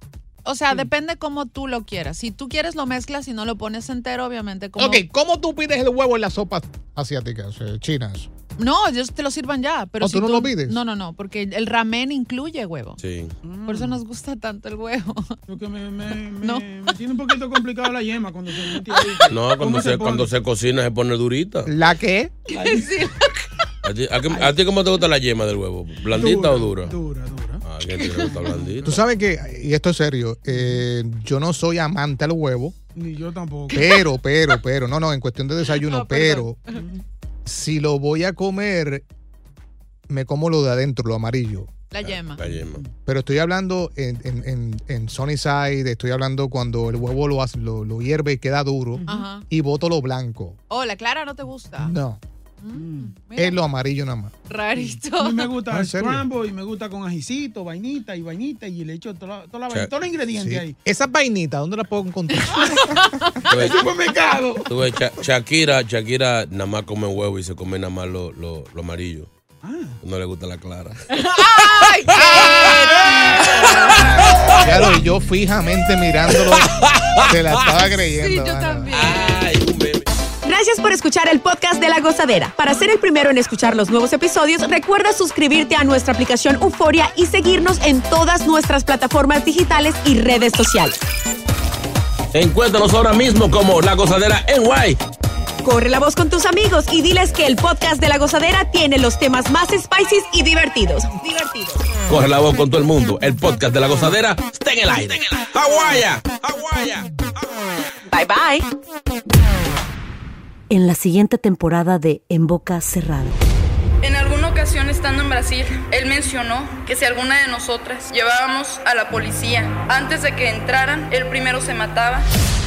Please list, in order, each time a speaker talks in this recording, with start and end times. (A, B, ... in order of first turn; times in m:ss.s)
0:00.4-0:05.0 A
0:04.8-0:08.3 B
0:08.6-0:13.0 A
0:10.0-0:10.8 B
0:13.0-0:13.3 C
0:13.4-0:14.0 D
0:13.6-0:15.4 A
0:15.5-0:20.3 D
0:16.4-0:16.6 A
0:19.0-0:19.2 A
0:19.3-0:21.7 C
0:21.6-0:22.4 B
0:22.5-0:22.9 D
0:22.5-0:23.3 A
0:23.8-0:26.9 C
0:26.1-0:27.6 D
0:27.6-0:29.0 C
0:28.0-0:28.4 A
0:28.3-0:29.0 D
0:28.8-0:32.7 B
0:30.5-0:30.8 D
0:33.0-0:33.9 D
0:33.7-0:36.6 B
0:35.6-0:36.8 A
0:36.7-0:37.0 D
0:37.4-0:39.0 B
0:40.1-0:41.7 B
0:41.9-0:42.4 A
0:42.0-0:42.8 C
0:42.5-0:42.9 D
0:43.0-0:50.6 B
0:49.0-0:49.2 D
0:49.0-0:49.4 A
0:50.7-0:51.9 A
0:51.8-0:52.2 B
0:52.6-0:53.6 A
0:52.7-0:53.1 D
0:53.4-0:54.3 B
0:54.4-0:55.6 A
0:54.8-1:00.7 D
0:55.7-0:56.3 B
1:00.3-1:03.0 B
1:03.0-1:03.6 A
1:03.5-1:03.9 C
1:03.5-1:04.7 D
1:04.7-1:09.3 C
1:09.6-1:10.0 D
1:10.0-1:11.0 C
1:11.1-1:14.2 A
1:11.7-1:14.7 C
1:14.5-1:19.0 B
1:16.4-1:17.7 C
1:18.1-1:19.4 A
1:18.9-1:20.1 C
1:20.4-1:31.0 E
1:32.3-1:35.0 C
1:35.6-1:41.8 E
1:42.1-1:47.1 C
1:48.1-1:48.7 E
1:50.7-1:53.4 F
1:54.0-2:02.3 G